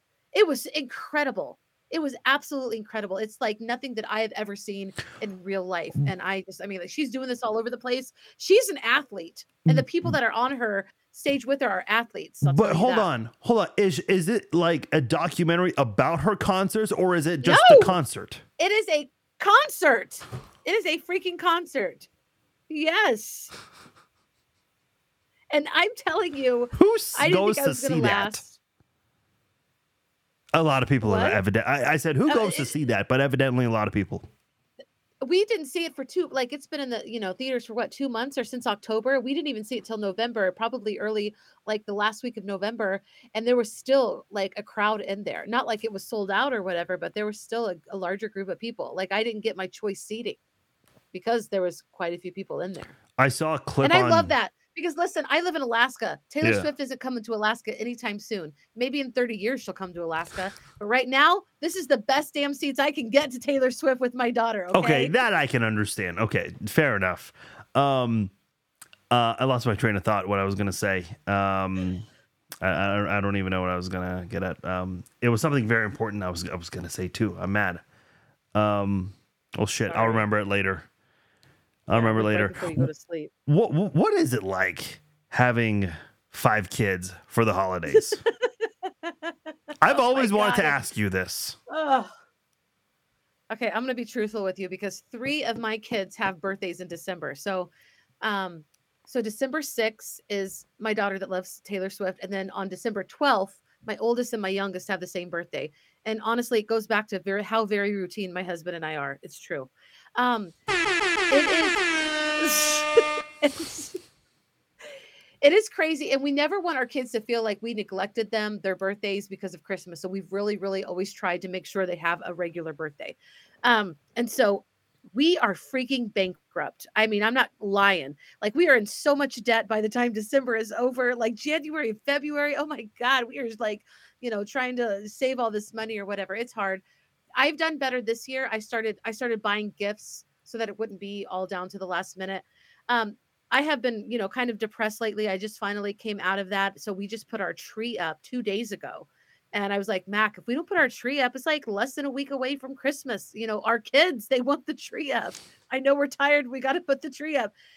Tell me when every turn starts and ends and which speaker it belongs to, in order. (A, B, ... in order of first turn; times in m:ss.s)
0:00.3-0:13.1 A
0:09.7-0:10.2 B
0:12.4-0:18.4 B
0:17.4-0:18.0 A
0:18.6-0:22.1 A
0:22.7-0:23.5 A
0:25.5-0:28.5 A
0:26.7-0:28.4 B
0:30.5-0:34.3 B
0:31.0-0:31.4 A
0:32.3-0:32.7 A
0:35.2-0:50.4 A
0:51.1-0:52.9 A
0:53.2-0:54.3 B
0:53.8-1:05.1 A
0:56.4-0:56.7 B
1:04.7-1:08.3 B
1:09.1-1:12.0 B
1:12.6-1:17.8 B
1:18.5-1:20.9 B
1:19.9-1:20.2 A
1:21.9-1:22.9 B
1:21.9-1:23.3 A
1:23.5-1:28.2 B
1:27.9-1:29.3 A
1:29.8-1:31.6 B
1:29.9-1:30.9 A
1:31.7-1:32.1 A
1:33.5-1:37.7 A
1:38.2-1:50.5 A
1:51.3-1:54.0 A
1:55.4-2:16.8 A
2:17.4-2:37.5 A